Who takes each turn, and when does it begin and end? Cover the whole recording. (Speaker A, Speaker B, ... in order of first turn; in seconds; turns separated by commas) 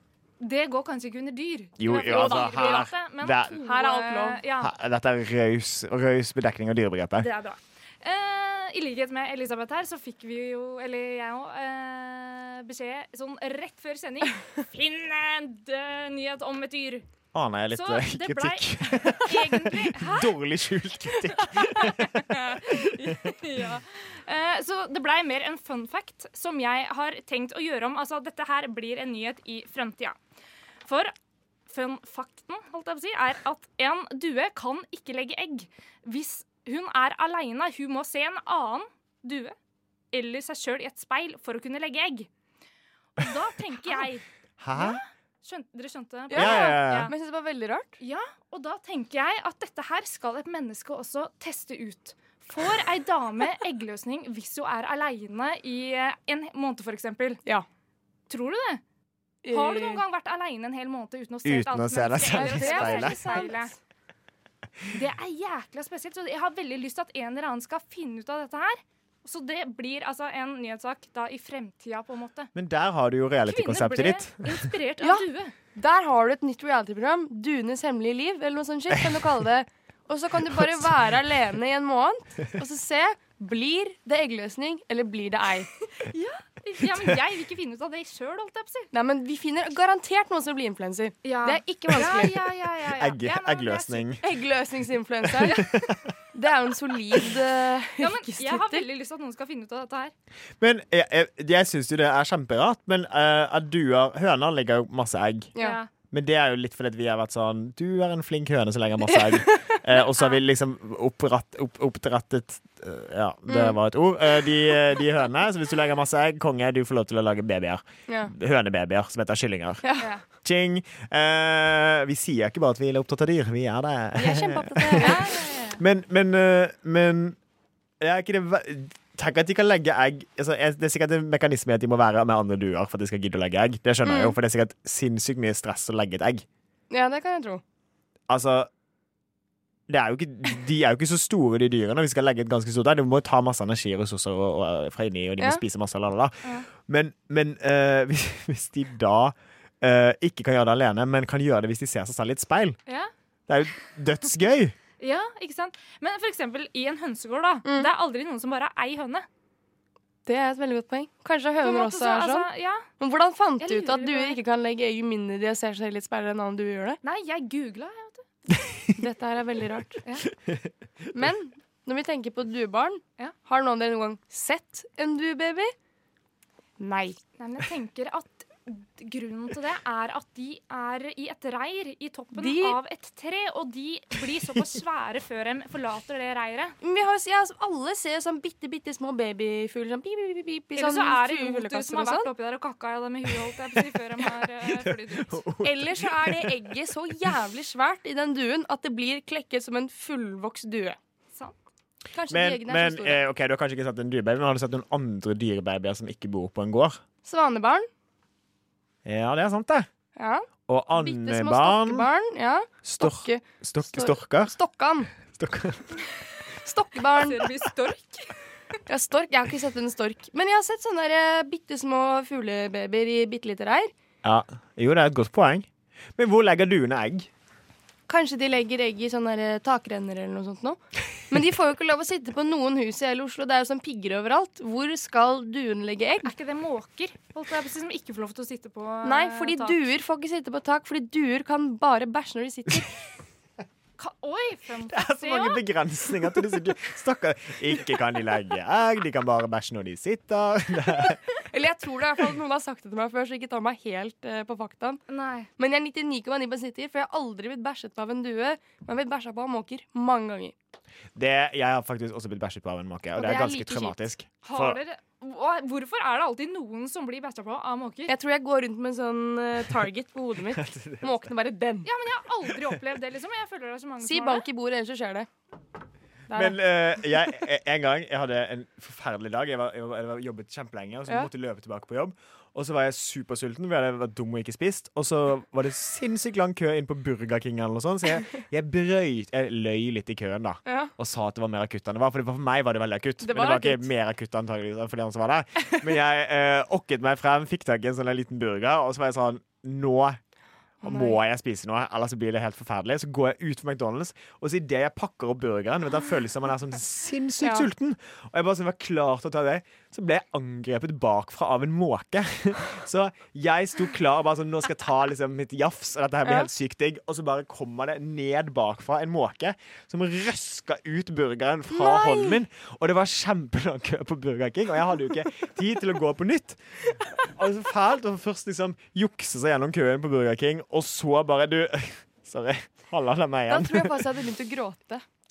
Speaker A: 0.4-4.7, Speaker B: 1.8-3.6, Speaker C: 2.1-2.6, Speaker C: 3.6-4.4, Speaker B: 4.6-7.3, Speaker A: 7.2-17.1, Speaker B: 17.3-23.1, Speaker A: 17.7-20.4, Speaker A: 21.5-30.2, Speaker A: 30.9-31.1, Speaker A: 31.7-39.5, Speaker A: 40.1-42.3, Speaker A: 43.2-47.1, Speaker B: 44.6-45.0, Speaker C: 46.3-48.0, Speaker B: 46.3-47.1, Speaker A: 48.0-57.4, Speaker A: 58.3-58.8, Speaker C: 59.4-60.0, Speaker A: 59.5-63.7, Speaker B: 61.5-63.2, Speaker C: 62.3-63.8, Speaker A: 64.9-72.5, Speaker B: 72.5-74.7, Speaker A: 73.5-75.5, Speaker C: 75.0-85.7, Speaker B: 80.5-80.9, Speaker A: 86.0-88.9, Speaker C: 88.9-92.5, Speaker A: 91.2-94.1, Speaker B: 92.9-94.2, Speaker C: 94.2-95.7, Speaker B: 95.3-96.1, Speaker A: 95.4-95.8, Speaker C: 96.3-98.9, Speaker A: 98.0-100.1, Speaker B: 100.6-105.5, Speaker A: 105.6-105.9, Speaker B: 106.1-119.8, Speaker C: 109.1-109.8, Speaker C: 113.5-113.8, Speaker C: 119.8-120.1, Speaker B: 120.4-125.3, Speaker C: 124.2-125.3, Speaker A: 125.0-125.8, Speaker B: 125.8-127.4, Speaker B: 128.0-136.5, Speaker C: 134.0-134.3, Speaker C: 136.9-137.6, Speaker B: 138.3-138.7, Speaker B: 139.9-152.8, Speaker B: 153.5-154.8, Speaker A: 155.0-159.3, Speaker C: 157.7-157.9, Speaker C: 160.3-162.5, Speaker A: 161.6-162.9, Speaker C: 163.0-167.0, Speaker A: 163.6-164.4, Speaker A: 167.0-168.3, Speaker C: 168.9-170.0, Speaker C: 171.1-175.7, Speaker C: 176.8-177.2, Speaker A: 177.4-186.8, Speaker C: 182.3-182.8, Speaker C: 186.8-192.3, Speaker A: 190.8-195.4, Speaker B: 194.6-196.7, Speaker C: 195.6-201.0, Speaker C: 202.1-203.2, Speaker B: 202.3-207.0, Speaker C: 207.2-207.9, Speaker B: 209.1-209.9, Speaker C: 210.2-215.1, Speaker B: 210.7-212.1, Speaker B: 212.8-214.6, Speaker B: 215.3-216.0, Speaker C: 216.6-217.5, Speaker A: 217.2-218.3, Speaker C: 218.9-223.9, Speaker B: 224.2-227.3, Speaker C: 228.1-236.3, Speaker A: 236.2-239.8, Speaker C: 239.0-243.0, Speaker A: 244.0-245.6, Speaker B: 244.9-251.2, Speaker C: 251.5-255.0, Speaker A: 255.1-255.5, Speaker C: 255.6-260.6, Speaker B: 261.1-264.8, Speaker C: 263.2-264.0, Speaker A: 264.4-268.1, Speaker C: 268.1-271.9, Speaker B: 270.5-271.3, Speaker A: 271.9-274.5, Speaker C: 274.0-275.3, Speaker C: 276.3-276.6, Speaker B: 276.3-300.2, Speaker C: 290.7-290.9, Speaker C: 293.2-293.9, Speaker C: 300.8-301.2, Speaker B: 300.8-326.6, Speaker C: 307.4-307.7, Speaker C: 316.2-316.5, Speaker C: 321.7-322.4, Speaker B: 327.2-334.1, Speaker C: 333.5-335.0